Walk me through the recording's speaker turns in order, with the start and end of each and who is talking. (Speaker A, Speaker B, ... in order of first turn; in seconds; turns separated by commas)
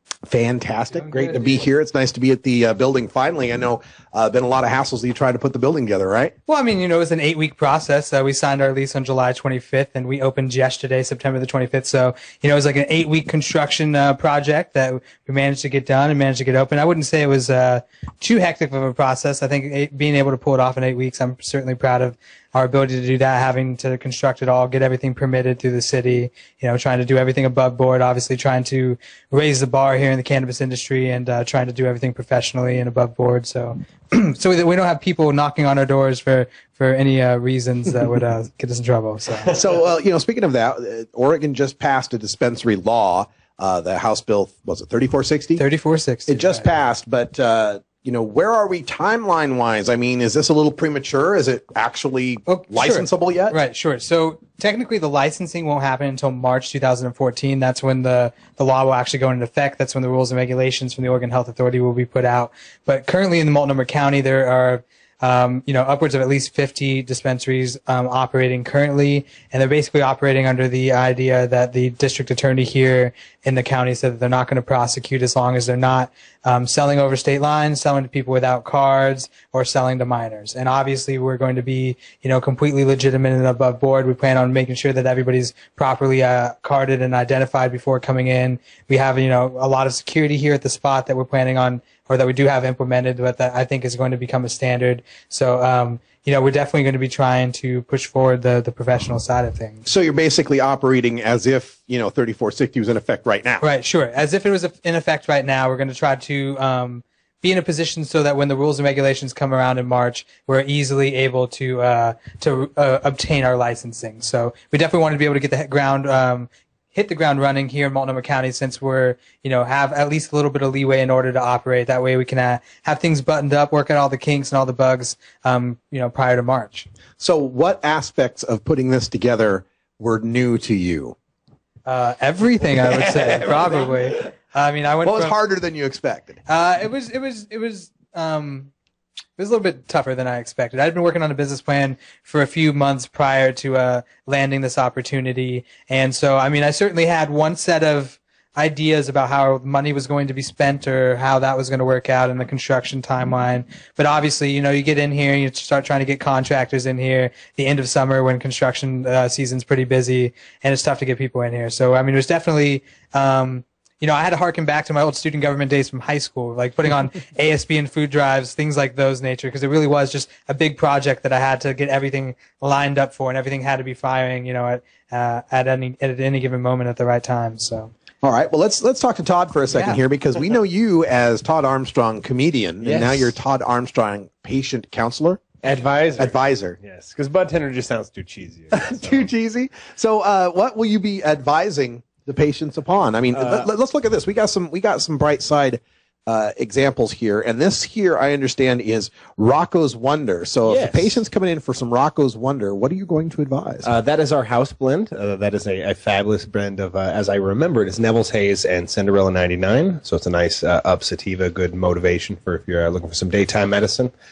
Speaker A: 0.3-6.3, Speaker B: 0.9-1.3, Speaker B: 6.5-39.5, Speaker A: 39.4-45.6, Speaker B: 45.6-46.7, Speaker A: 46.3-53.6, Speaker B: 52.5-99.8, Speaker A: 99.8-103.7, Speaker B: 103.6-126.9, Speaker A: 127.2-131.2, Speaker B: 131.8-135.4, Speaker A: 132.7-134.1, Speaker A: 135.0-136.4, Speaker B: 136.5-138.7, Speaker B: 139.4-177.9, Speaker A: 178.2-186.8, Speaker B: 179.7-180.0, Speaker C: 182.8-183.3, Speaker C: 185.6-189.3, Speaker A: 188.7-203.9, Speaker C: 193.3-193.7, Speaker C: 200.7-201.2, Speaker C: 203.8-214.1